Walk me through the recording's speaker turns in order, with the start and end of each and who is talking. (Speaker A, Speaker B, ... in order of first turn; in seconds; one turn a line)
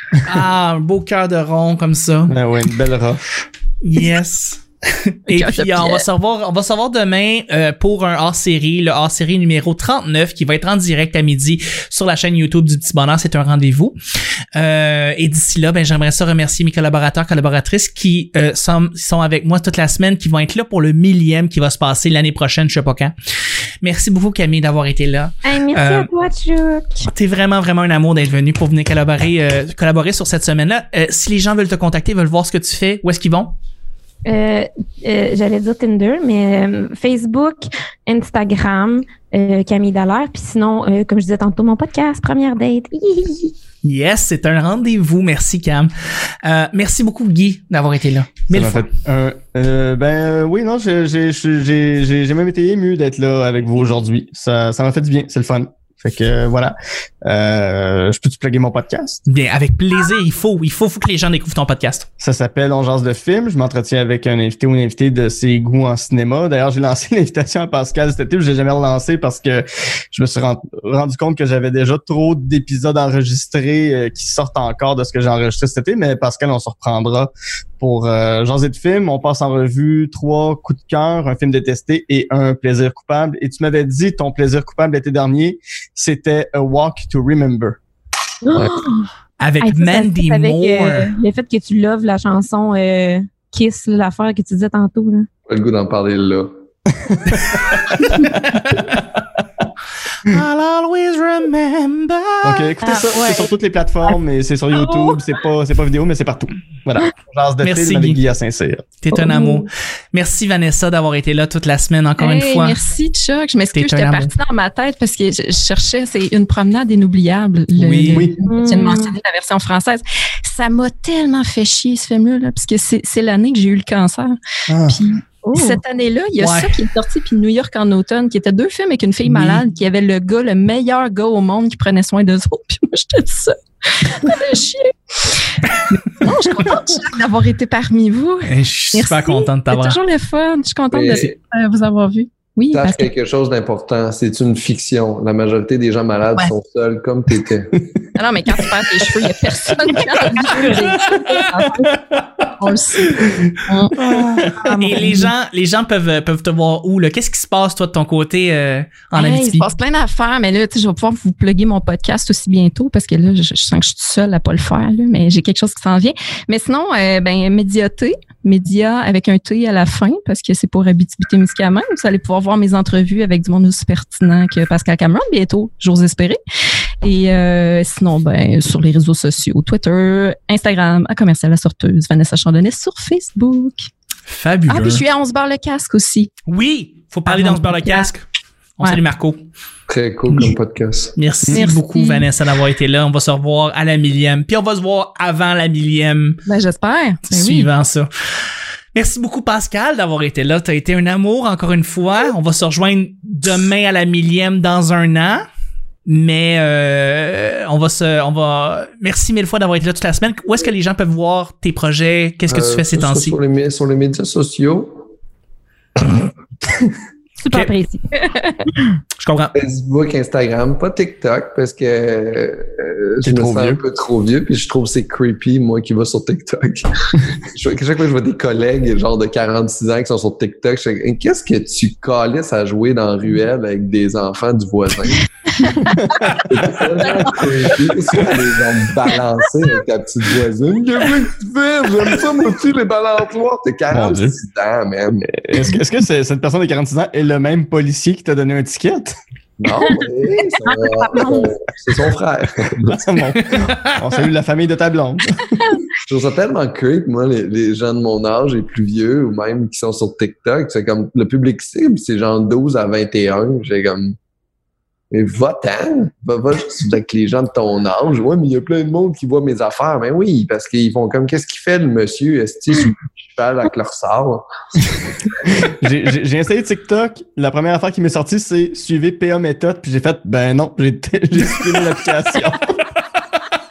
Speaker A: 0.2-2.4
Speaker B: 2.3-3.5
Speaker A: 3.8-13.9
Speaker C: 5.3-6.0
Speaker A: 14.6-23.1
Speaker A: 23.8-26.1
Speaker D: 25.4-27.1
Speaker A: 27.1-33.5
Speaker D: 34.2-43.5
Speaker A: 43.8-45.9
Speaker A: 46.4-48.9
Speaker B: 48.5-59.2
Speaker A: 59.3-62.1
Speaker B: 62.2-87.8
Speaker D: 88.4-89.1
Speaker A: 89.4-91.1
Speaker D: 89.6-95.3
Speaker E: 95.5-96.5
Speaker B: 97.1-98.4
Speaker A: 98.0-99.0
Speaker A: 100.2-102.7
Speaker B: 102.4-108.8
Speaker D: 102.8-103.5
Speaker D: 104.8-105.1
Speaker A: 107.6-108.2
Speaker A: 109.0-112.8
Speaker D: 109.2-109.7
Speaker C: 112.2-143.1
Speaker A: 113.7-114.3
Speaker A: 117.7-118.3
Speaker B: 118.1-118.3
Speaker D: 118.4-119.1
Speaker B: 124.7-125.0
Speaker D: 125.4-125.8
Speaker A: 126.4-126.7
Speaker A: 129.2-129.6
Speaker A: 138.5-140.0
Speaker E: 140.9-141.3
Speaker E: 142.7-147.9
Speaker C: 148.2-152.0
Speaker A: 150.4-151.5
Speaker C: 152.6-154.0
Speaker A: 153.9-159.7
Speaker C: 154.6-155.3
Speaker C: 159.1-176.4
Speaker C: 177.0-183.8
Speaker A: 184.2-185.0
Speaker C: 184.7-186.3
Speaker A: 186.5-188.2
Speaker C: 187.3-188.1
Speaker A: 188.8-189.4
Speaker E: 189.9-191.1
Speaker A: 191.2-196.4
Speaker C: 191.5-192.3
Speaker C: 196.4-197.7
Speaker A: 197.3-198.1
Speaker A: 198.9-205.4
Speaker A: 206.1-213.4
Speaker E: 212.5-215.0
Speaker D: 217.4-218.0
Speaker A: 219.2-219.5
Speaker E: 219.5-226.9
Speaker B: 223.2-223.8
Speaker E: 227.4-245.3
Speaker C: 235.6-235.9
Speaker B: 235.7-236.8
Speaker B: 243.9-244.4
Speaker B: 245.2-249.2
Speaker E: 249.6-253.1
Speaker D: 250.6-251.5
Speaker B: 252.8-255.7
Speaker A: 253.3-254.0
Speaker E: 256.1-264.1
Speaker E: 265.1-274.4
Speaker B: 275.6-282.8